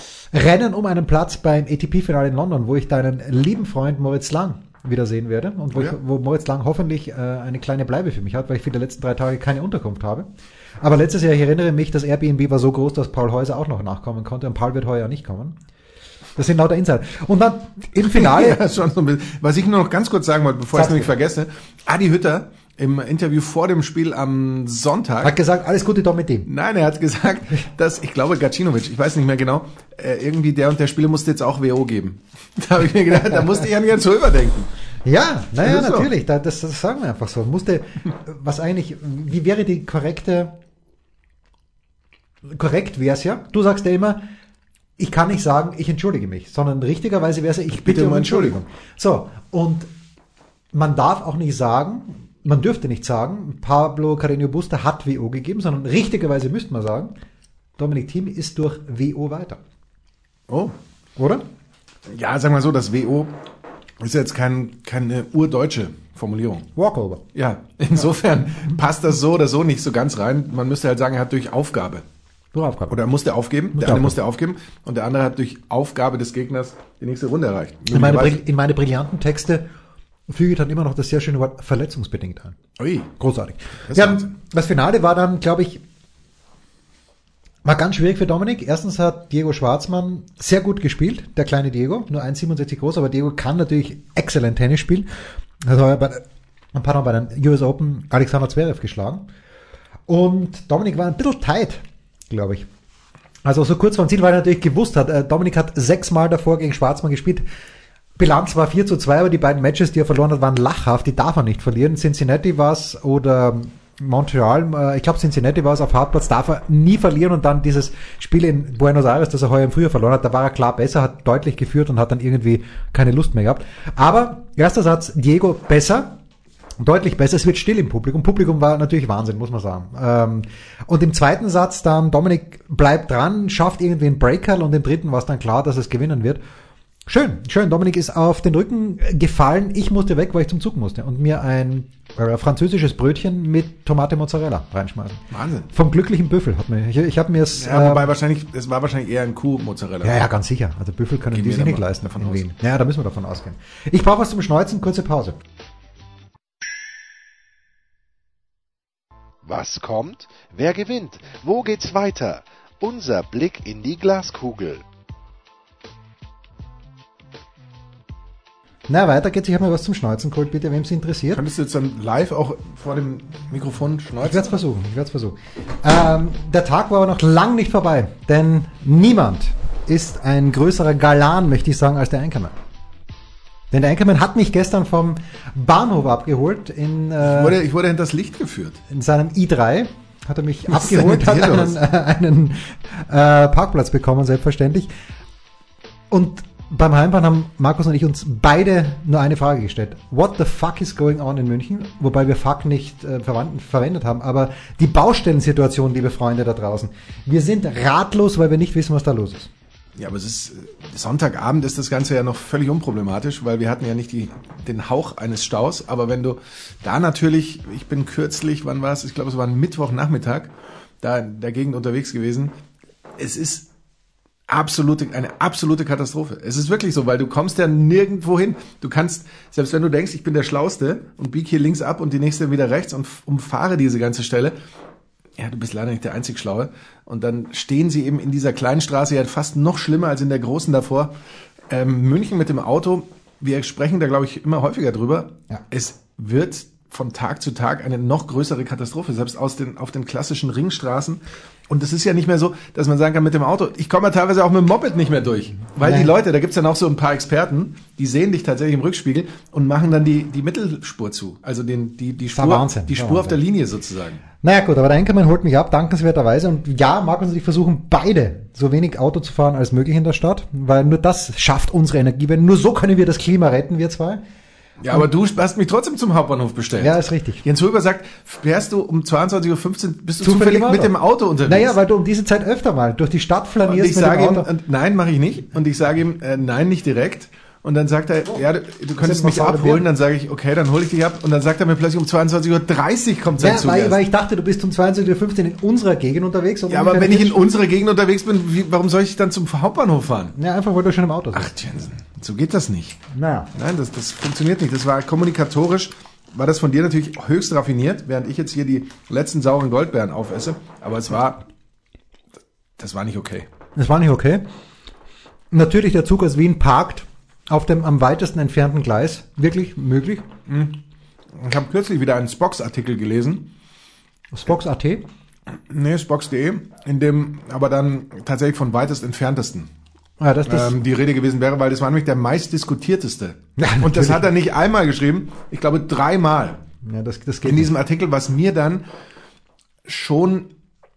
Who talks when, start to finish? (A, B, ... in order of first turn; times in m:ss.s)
0:00.3-0:10.3 A
0:10.8-0:15.6 A
0:16.4-0:18.6 A
0:18.0-0:25.4 B
0:20.7-0:21.1 A
0:25.2-0:26.5 A
0:26.5-0:34.7 B
0:35.0-0:40.5 A
0:35.6-0:36.1 B
0:42.5-0:44.2 A
0:45.0-0:49.9 A
0:47.8-0:48.6 B
0:50.7-0:57.1 A
0:57.8-0:59.6 A
1:00.5-1:00.8 B
1:01.2-1:01.4 A
1:02.1-1:03.4 B
1:04.0-1:06.7 B
1:06.8-1:07.2 A
1:07.4-1:12.0 B
1:12.5-1:13.0 A
1:12.9-1:18.4 B
1:13.7-1:14.2 A
1:17.9-1:19.7 A
1:20.3-1:22.6 A
1:22.8-1:23.1 B
1:23.2-1:25.8 A
1:23.9-1:24.3 B
1:27.6-1:35.1 A
1:35.6-1:39.3 A
1:40.1-1:42.7 A
1:43.4-1:47.4 A
1:48.2-2:06.2 A
2:06.8-2:16.4 A
2:17.1-2:28.1 A
2:25.3-2:25.7 B
2:27.6-2:30.2 B
2:30.0-2:35.4 A
2:31.3-2:32.4 B
2:39.4-2:44.8 C
2:48.9-2:51.4 A
2:51.3-2:54.6 B
2:54.2-3:02.6 A
3:03.7-3:07.6 A
3:07.2-3:08.8 B
3:08.9-3:14.9 A
3:10.7-3:11.8 B
3:16.1-3:29.5 A
3:30.0-3:42.6 B
3:43.2-3:43.7 B
3:44.5-3:54.6 B
3:55.4-4:01.1 B
4:01.7-4:24.2 B
4:15.8-4:16.1 A
4:22.3-4:23.4 A
4:24.4-4:34.2 A
4:34.8-4:41.8 B
4:36.8-4:37.4 A
4:40.2-4:40.9 A
4:41.4-4:44.5 A
4:43.7-4:54.0 B
4:49.0-4:49.9 A
4:53.4-4:57.4 A
4:56.7-5:00.4 B
5:00.4-5:01.6 A
5:01.3-5:03.0 B
5:03.1-5:03.5 A
5:03.5-5:11.4 B
5:12.8-5:13.5 B
5:13.8-5:14.4 A
5:15.5-5:20.3 A
5:20.5-5:20.8 B
5:21.3-5:23.5 B
5:24.3-5:25.1 A
5:25.7-5:29.7 B
5:30.2-5:30.8 A
5:30.5-5:36.6 B
5:33.6-5:34.3 A
5:36.8-5:37.7 A
5:37.4-5:38.8 B
5:39.8-5:40.5 B